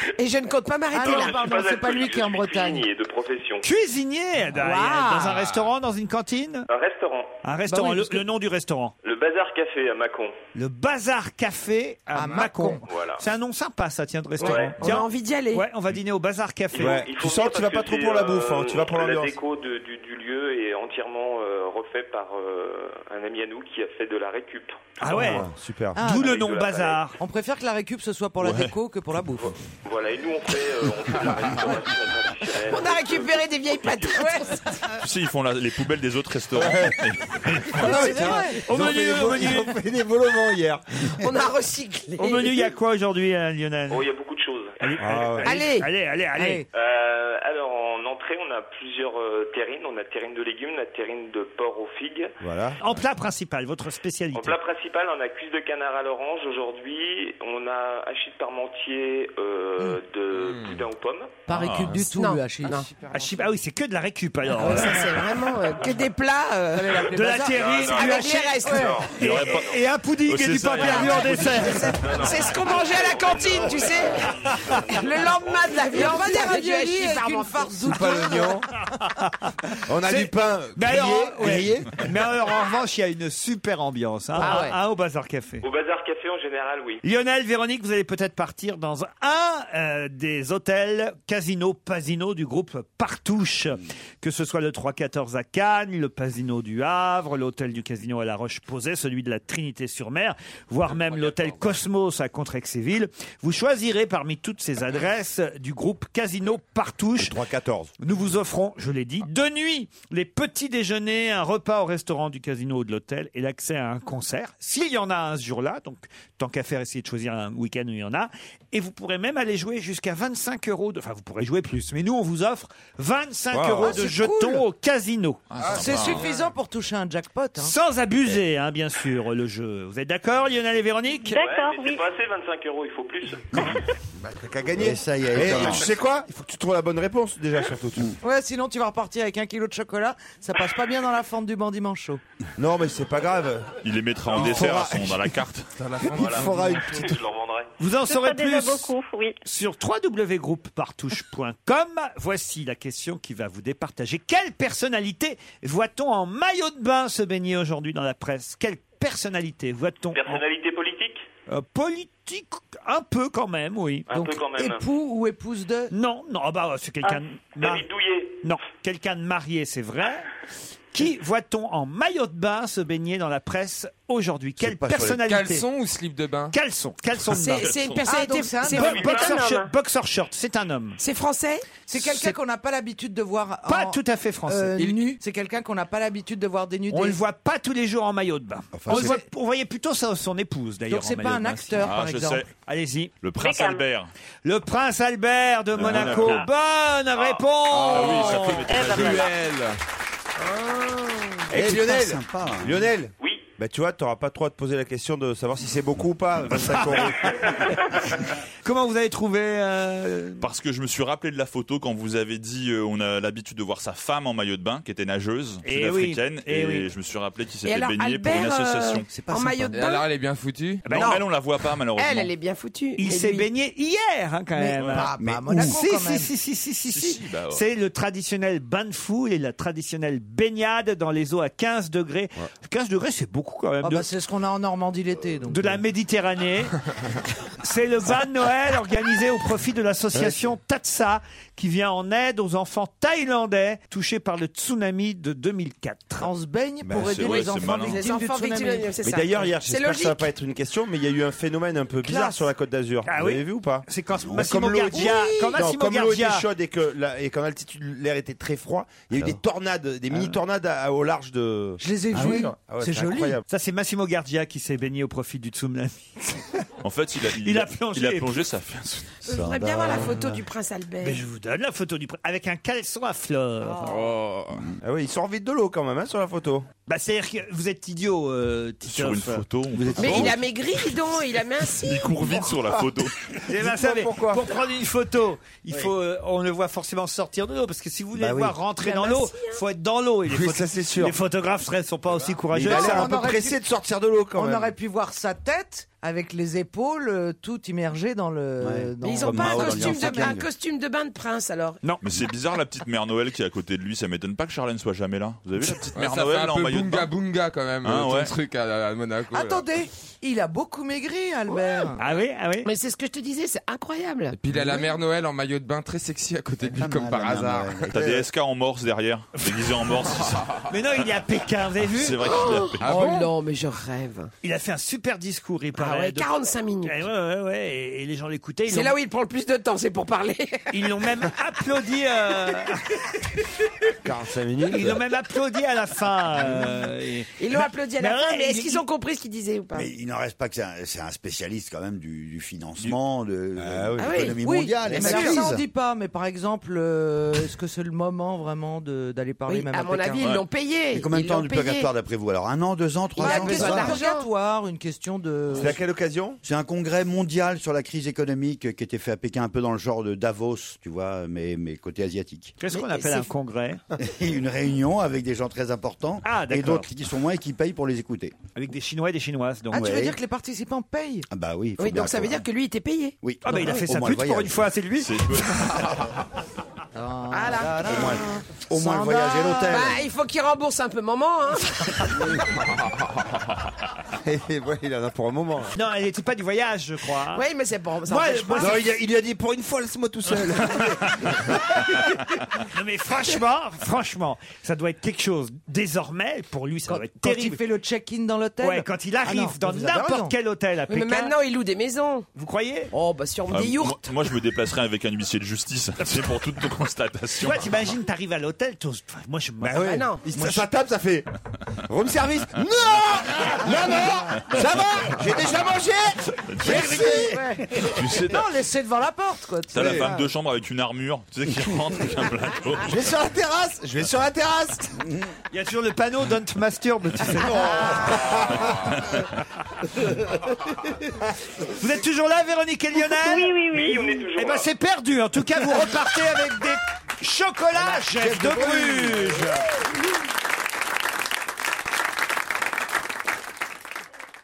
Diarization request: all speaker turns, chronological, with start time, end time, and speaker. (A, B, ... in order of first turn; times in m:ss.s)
0:00.2-0:01.6 A
0:00.9-0:02.9 B
0:01.0-0:03.7 C
0:03.6-0:06.7 D
0:04.6-0:05.5 A
0:06.7-0:07.4 C
0:07.4-0:08.9 D
0:07.7-0:08.1 B
0:09.0-0:10.4 C
0:10.6-0:17.0 D
0:12.1-0:12.8 B
0:12.9-0:13.2 C
0:14.4-0:14.7 C
0:14.4-0:15.7 A
0:16.7-0:25.4 C
0:16.8-0:19.4 E
0:25.0-0:27.2 D
0:25.1-0:26.0 E
0:26.0-0:26.4 B
0:26.2-0:27.0 C
0:27.2-0:29.6 B
0:28.4-0:28.7 F
0:29.8-0:34.3 C
0:32.6-0:34.9 A
0:34.1-0:34.4 B
0:35.0-0:38.3 F
0:36.6-0:41.1 E
0:37.8-0:38.7 B
0:37.9-0:39.8 D
0:41.2-0:42.7 A
0:42.2-0:44.1 D
0:43.9-0:44.8 C
0:44.8-0:46.6 D
0:45.0-0:45.6 E
0:45.4-0:45.9 A
0:46.4-0:46.7 B
0:46.7-0:52.4 C
0:52.4-0:52.8 E
0:52.8-0:54.6 D
0:54.3-1:01.4 C
1:00.4-1:00.8 G
1:01.5-1:03.4 B
1:01.5-1:02.0 F
1:02.1-1:02.9 A
1:03.1-1:05.1 D
1:04.6-1:07.1 A
1:06.7-1:09.0 B
1:07.1-1:12.0 D
1:07.4-1:09.6 C
1:07.9-1:09.1 A
1:09.2-1:12.1 F
1:10.8-1:14.2 A
1:11.9-1:14.7 C
1:14.4-1:14.7 D
1:14.9-1:18.1 A
1:15.4-1:15.7 C
1:15.8-1:18.6 B
1:17.8-1:18.7 E
1:19.1-1:25.6 D
1:19.9-1:22.1 E
1:24.4-1:24.8 A
1:24.4-1:24.7 B
1:25.6-1:27.0 C
1:27.0-1:47.4 D
1:47.2-1:47.9 E
1:48.0-2:05.4 D
2:03.5-2:04.0 E
2:03.8-2:04.6 B
2:05.5-2:06.3 F
2:05.6-2:07.7 B
2:07.6-2:11.4 D
2:11.3-2:12.0 H
2:11.4-2:13.8 C
2:14.2-2:18.2 E
2:14.7-2:15.9 I
2:18.2-2:22.2 B
2:22.6-2:23.8 E
2:23.8-2:25.7 F
2:24.3-2:25.2 E
2:25.8-2:27.0 G
2:26.0-2:27.2 E
2:26.1-2:27.7 C
2:27.8-2:28.9 D
2:28.0-2:29.4 H
2:29.4-2:40.4 D
2:40.1-2:41.2 C
2:41.5-2:44.1 D
2:44.1-2:44.8 C
2:44.1-2:45.9 B
2:45.9-2:47.9 D
2:47.6-2:48.4 C
2:48.4-2:50.3 D
2:50.9-2:55.7 D
2:54.6-2:55.2 I
2:55.1-2:56.6 G
2:56.5-2:57.7 D
2:57.3-2:59.4 A
2:57.6-2:58.1 F
2:58.1-2:59.1 B
2:58.7-3:01.0 D
2:59.1-2:59.7 H
3:01.0-3:01.8 A
3:01.8-3:07.2 B
3:02.0-3:02.4 D
3:03.7-3:04.7 D
3:06.9-3:11.9 D
3:08.7-3:09.2 I
3:10.9-3:12.4 B
3:11.8-3:12.5 F
3:12.6-3:13.1 D
3:13.2-3:14.1 F
3:13.4-3:13.8 H
3:14.4-3:18.7 D
3:15.8-3:16.5 F
3:17.2-3:17.4 C
3:17.7-3:19.8 G
3:17.9-3:19.2 F
3:18.7-3:19.3 H
3:20.4-3:21.5 A
3:21.5-3:22.9 I
3:21.5-3:27.8 E
3:23.2-3:23.5 C
3:26.8-3:27.7 D
3:28.6-3:30.5 D
3:30.4-3:39.1 F
3:35.6-3:36.9 D
3:37.6-3:40.1 A
3:39.1-3:39.8 I
3:39.7-3:40.9 G
3:40.8-3:41.2 D
3:40.9-3:41.3 A
3:40.9-3:42.3 F
3:42.0-3:43.5 A
3:43.0-3:54.1 D
3:44.6-3:46.3 B
3:44.8-3:45.1 F
3:45.2-3:45.8 I
3:46.9-3:47.7 F
3:53.8-3:55.8 B
3:55.5-3:56.8 D
3:57.6-4:06.3 D
4:00.1-4:00.5 E
4:06.2-4:09.0 B
4:06.8-4:07.5 E
4:07.0-4:08.0 F
4:07.3-4:10.3 A
4:09.0-4:23.4 E
4:12.0-4:12.4 A
4:13.0-4:16.5 D
4:14.1-4:14.5 I
4:21.8-4:23.4 B
4:22.1-4:22.4 I
4:23.5-4:26.6 D
4:26.8-4:29.2 F
4:27.4-4:28.4 D
4:29.2-4:31.3 A
4:29.3-4:30.4 I
4:31.0-4:34.0 D
4:33.7-4:34.1 A
4:33.9-4:34.7 G
4:34.8-4:36.7 E
4:36.9-4:39.4 D
4:38.8-4:40.4 F
4:39.8-4:40.3 I
4:40.0-4:42.5 A
4:41.8-4:43.2 F
4:43.4-4:53.1 D
4:43.5-4:44.4 E
4:48.2-4:48.6 E
4:48.8-4:49.6 A
4:50.3-4:51.2 E
4:52.5-4:54.7 E
4:52.6-4:53.6 B
4:54.3-5:00.4 B
4:58.6-5:00.4 I
4:59.0-5:01.8 A
5:02.0-5:07.1 F
5:05.7-5:09.7 G
5:07.8-5:08.3 F
5:09.3-5:12.0 B
5:11.5-5:12.0 A
5:12.0-5:12.7 D
5:12.6-5:14.4 A
5:14.3-5:17.9 G
5:16.7-5:18.2 I
5:17.9-5:20.5 F
5:19.4-5:19.6 D
5:20.7-5:22.4 D
5:22.0-5:23.1 F
5:22.2-5:24.3 A
5:22.8-5:23.1 G
5:24.4-5:26.3 D
5:25.8-5:27.0 A
5:26.8-5:29.0 D
5:28.7-5:30.9 A
5:30.7-5:33.1 D
5:34.0-5:35.0 E
5:34.7-5:38.8 D
5:37.4-5:39.9 A
5:39.7-5:45.6 I
5:43.6-5:44.4 E
5:44.0-5:44.4 A
5:44.4-5:50.3 B
5:45.0-5:45.5 A
5:49.5-5:51.9 A
5:50.9-5:54.0 I
5:53.2-5:54.3 A
5:53.2-5:55.8 B
5:55.6-5:56.4 E
5:56.4-6:02.6 I
6:02.6-6:03.8 D
6:02.7-6:03.3 A
6:04.0-6:08.4 I
6:06.2-6:06.9 D
6:08.6-6:10.0 D
6:09.7-6:11.3 B
6:09.7-6:10.2 I
6:11.3-6:12.4 I
6:11.8-6:13.2 A
6:13.2-6:14.6 I
6:13.4-6:15.9 D
6:15.0-6:16.1 F
6:16.9-6:20.0 B
6:17.3-6:18.1 A
6:17.8-6:20.0 I
6:19.7-6:22.2 A
6:24.2-6:25.7 E
6:25.8-6:27.4 D
6:27.3-6:28.9 A
6:28.1-6:28.9 D
6:28.6-6:31.8 E
6:31.1-6:32.0 D
6:32.7-6:37.6 D
6:36.9-6:40.3 B
6:38.6-6:41.4 D
6:40.9-6:42.3 A
6:42.3-6:42.9 D
6:42.9-6:44.2 A
6:43.5-6:47.7 F
6:46.0-6:46.3 D
6:47.4-6:50.0 D
6:49.6-6:51.3 E
6:49.8-6:50.3 A
6:51.9-6:57.4 E
6:56.5-6:57.1 F
6:56.6-7:00.2 B
6:57.8-6:58.4 F
6:59.7-7:02.9 F
6:59.8-7:00.1 E
7:02.8-7:05.0 E
7:05.5-7:08.3 D
7:07.4-7:08.8 E
7:08.7-7:09.3 F
7:11.6-7:13.6 D
7:13.1-7:14.2 H
7:13.7-7:14.7 C
7:14.3-7:19.7 D
7:17.9-7:19.3 E